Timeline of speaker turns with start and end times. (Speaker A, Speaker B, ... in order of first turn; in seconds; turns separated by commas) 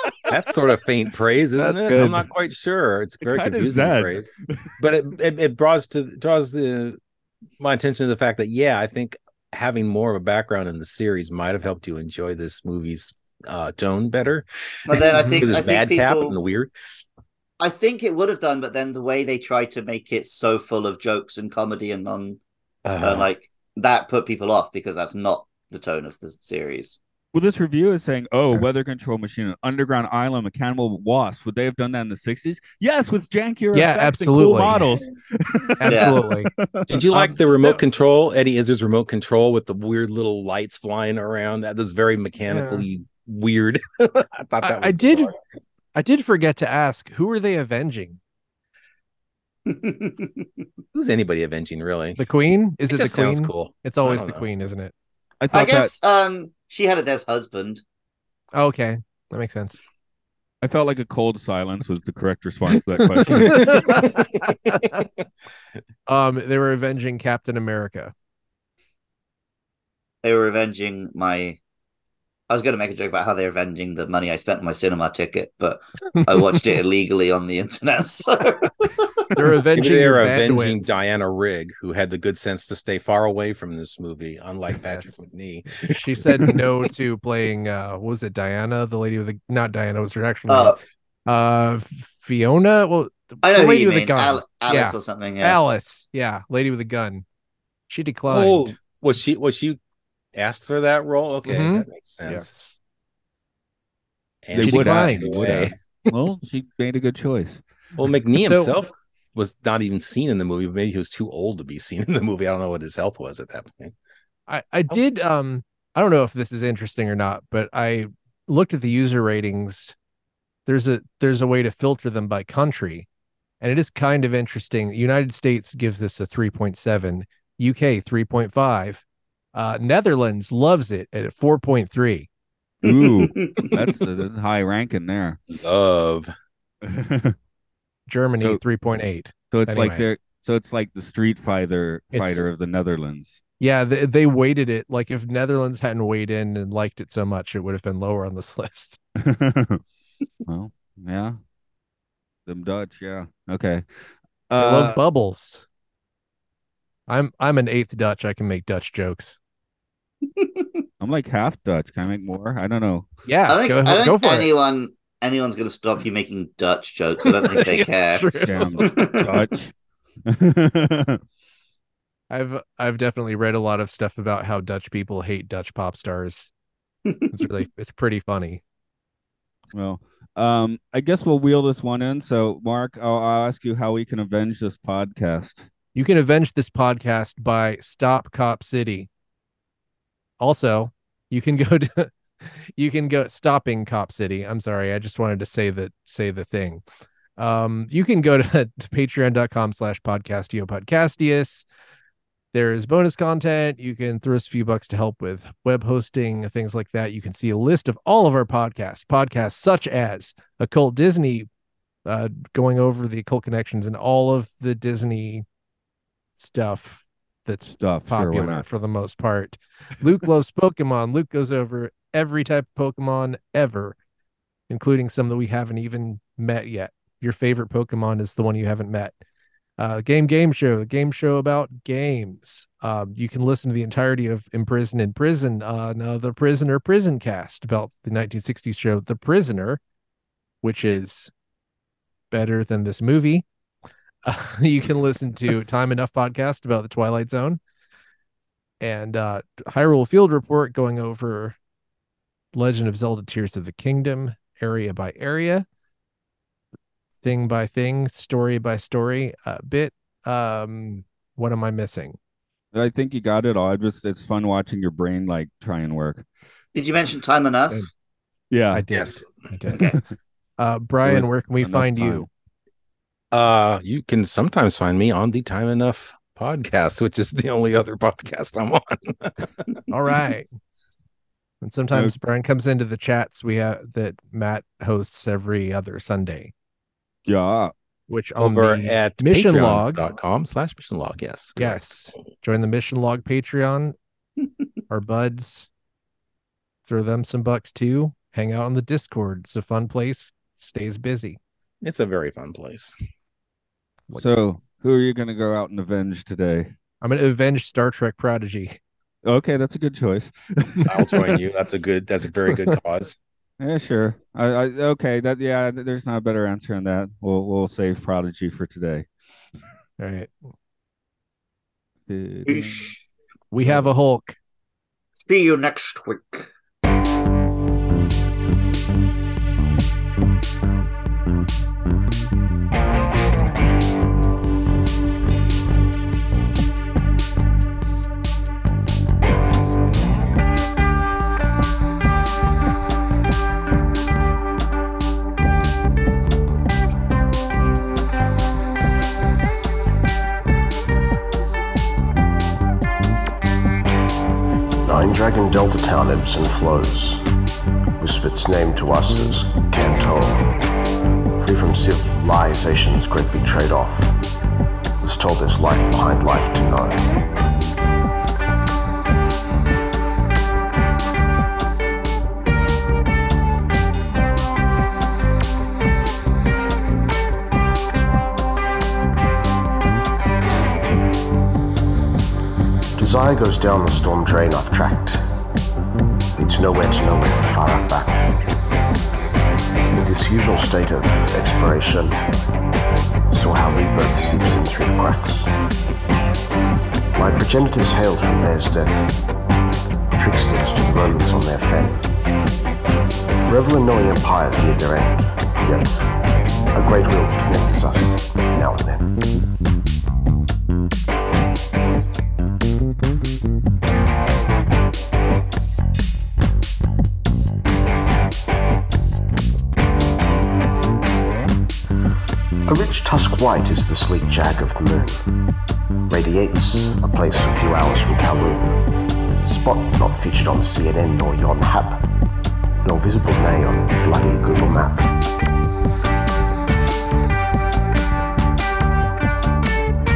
Speaker A: 0.3-7.0, Speaker B: 1.6-2.3, Speaker C: 3.2-4.7, Speaker A: 7.6-16.7, Speaker D: 14.9-16.4, Speaker B: 15.1-15.4, Speaker D: 17.6-22.4, Speaker A: 22.8-23.3, Speaker D: 23.0-27.0, Speaker C: 27.3-37.1, Speaker B: 33.7-34.8, Speaker B: 35.8-36.5, Speaker D: 35.9-36.2, Speaker A: 36.9-45.4, Speaker B: 37.1-37.8, Speaker B: 42.5-42.9, Speaker B: 44.6-45.3, Speaker B: 46.0-48.2, Speaker D: 49.7-50.5, Speaker A: 50.9-52.2, Speaker B: 52.2-54.9, Speaker A: 52.9-54.5, Speaker C: 55.4-55.9, Speaker D: 55.5-57.8, Speaker B: 58.5-59.8, Speaker C: 60.6-64.1, Speaker B: 63.1-65.0, Speaker A: 63.3-64.3, Speaker B: 66.1-68.1, Speaker D: 70.2-71.6, Speaker D: 72.5-79.2, Speaker B: 76.2-76.6, Speaker B: 79.3-80.9, Speaker A: 79.7-86.7, Speaker B: 85.9-97.2, Speaker D: 90.5-90.8, Speaker D: 93.4-95.6, Speaker B: 97.9-98.8, Speaker A: 98.3-99.8, Speaker A: 100.3-102.5, Speaker B: 101.5-102.8, Speaker A: 104.4-105.8, Speaker C: 104.5-107.6, Speaker B: 104.6-105.6, Speaker A: 108.0-113.9, Speaker B: 108.4-108.7, Speaker B: 114.5-120.0, Speaker B: 120.7-123.1, Speaker B: 123.6-132.3, Speaker C: 132.8-135.4, Speaker D: 132.8-133.8, Speaker A: 135.5-136.3, Speaker C: 136.8-137.4, Speaker B: 138.1-140.1, Speaker C: 139.5-143.4, Speaker B: 142.1-142.4, Speaker B: 143.6-149.0, Speaker C: 149.2-149.8, Speaker C: 150.5-151.4, Speaker C: 152.5-153.8, Speaker C: 154.5-155.0, Speaker B: 154.6-155.6, Speaker B: 157.1-159.4, Speaker D: 160.4-160.7, Speaker C: 161.0-163.1, Speaker B: 163.3-164.5, Speaker D: 163.5-169.3, Speaker B: 167.2-169.3, Speaker C: 168.4-169.7, Speaker C: 170.3-171.2, Speaker B: 172.3-176.5, Speaker B: 177.3-178.6, Speaker C: 179.7-185.7, Speaker B: 185.9-189.1, Speaker B: 190.4-196.8, Speaker B: 197.4-201.7, Speaker B: 202.5-211.5, Speaker B: 212.1-215.4, Speaker B: 216.4-223.9, Speaker C: 217.7-218.7, Speaker B: 224.7-229.1, Speaker B: 229.8-239.8, Speaker B: 240.6-241.3, Speaker B: 242.3-243.4, Speaker B: 244.2-247.6, Speaker B: 248.8-251.6, Speaker B: 252.5-255.7, Speaker B: 257.2-262.2, Speaker C: 262.7-266.2, Speaker D: 266.7-267.8, Speaker C: 268.5-268.8, Speaker B: 268.7-269.9, Speaker A: 268.9-269.2, Speaker B: 270.6-272.3, Speaker C: 271.0-272.3, Speaker A: 273.3-279.8, Speaker B: 279.9-280.5, Speaker B: 281.6-286.5, Speaker C: 287.3-287.7, Speaker B: 288.1-290.1, Speaker A: 288.4-291.9, Speaker B: 291.6-293.9, Speaker B: 294.9-295.7, Speaker B: 296.9-301.4, Speaker A: 301.8-302.9, Speaker C: 304.1-306.7, Speaker B: 307.0-308.8, Speaker C: 309.2-311.3, Speaker A: 310.9-313.2, Speaker B: 312.5-312.7, Speaker C: 313.6-319.1, Speaker B: 320.0-320.3, Speaker C: 322.1-322.9, Speaker D: 322.4-322.9, Speaker B: 323.5-324.4, Speaker D: 325.2-326.5, Speaker E: 354.8-357.2, Speaker E: 358.0-360.6, Speaker E: 361.4-364.1, Speaker E: 365.0-367.1, Speaker E: 382.9-385.3, Speaker E: 386.3-388.4, Speaker E: 389.9-392.2, Speaker E: 393.3-395.5, Speaker E: 397.1-399.1, Speaker E: 400.2-402.1, Speaker E: 403.4-406.1, Speaker E: 406.7-409.1, Speaker E: 422.7-425.2, Speaker E: 426.1-428.8, Speaker E: 429.4-432.1, Speaker E: 432.8-435.1